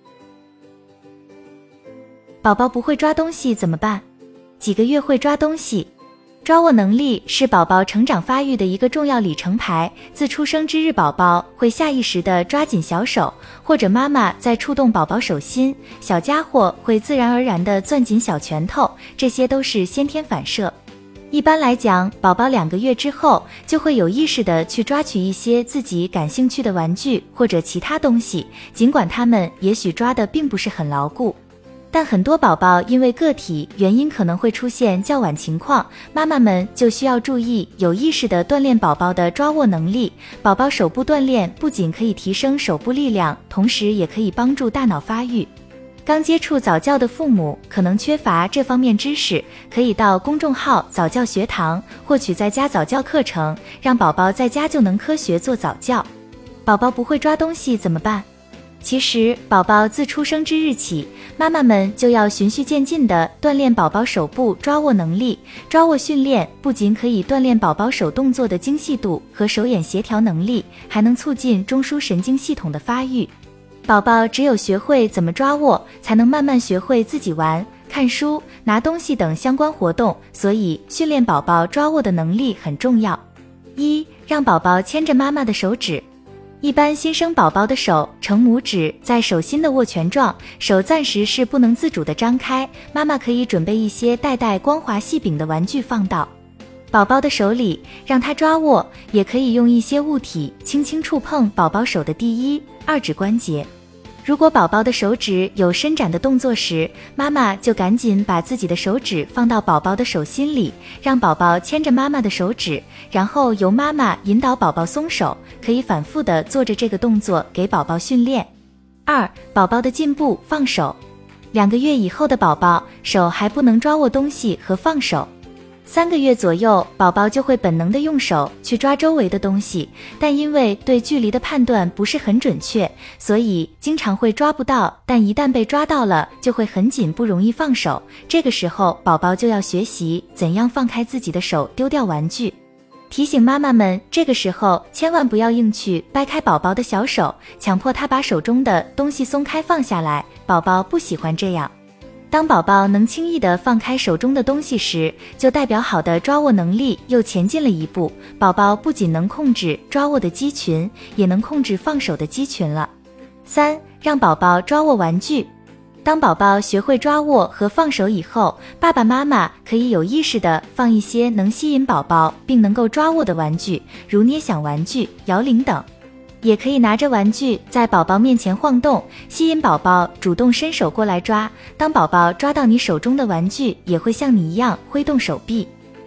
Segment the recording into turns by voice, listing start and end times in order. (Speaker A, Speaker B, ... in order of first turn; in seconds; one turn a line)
Speaker A: 2.4-4.0
Speaker A: 4.6-5.9
Speaker A: 6.4-20.7
Speaker A: 21.3-31.4
Speaker A: 31.9-45.5
Speaker A: 46.0-56.1
Speaker A: 56.6-58.2
Speaker A: 58.8-73.3
Speaker A: 73.9-83.2
Speaker A: 83.8-86.0
Speaker A: 86.6-96.3
Speaker A: 96.9-103.7
Speaker A: 104.2-118.5
Speaker A: 119.0-121.0
Speaker A: 121.5-125.3
Speaker A: 125.8-142.6
Speaker A: 143.1-151.7
Speaker A: 152.3-162.9
Speaker A: 163.4-165.5
Speaker A: 166.0-175.9
Speaker A: 176.4-185.7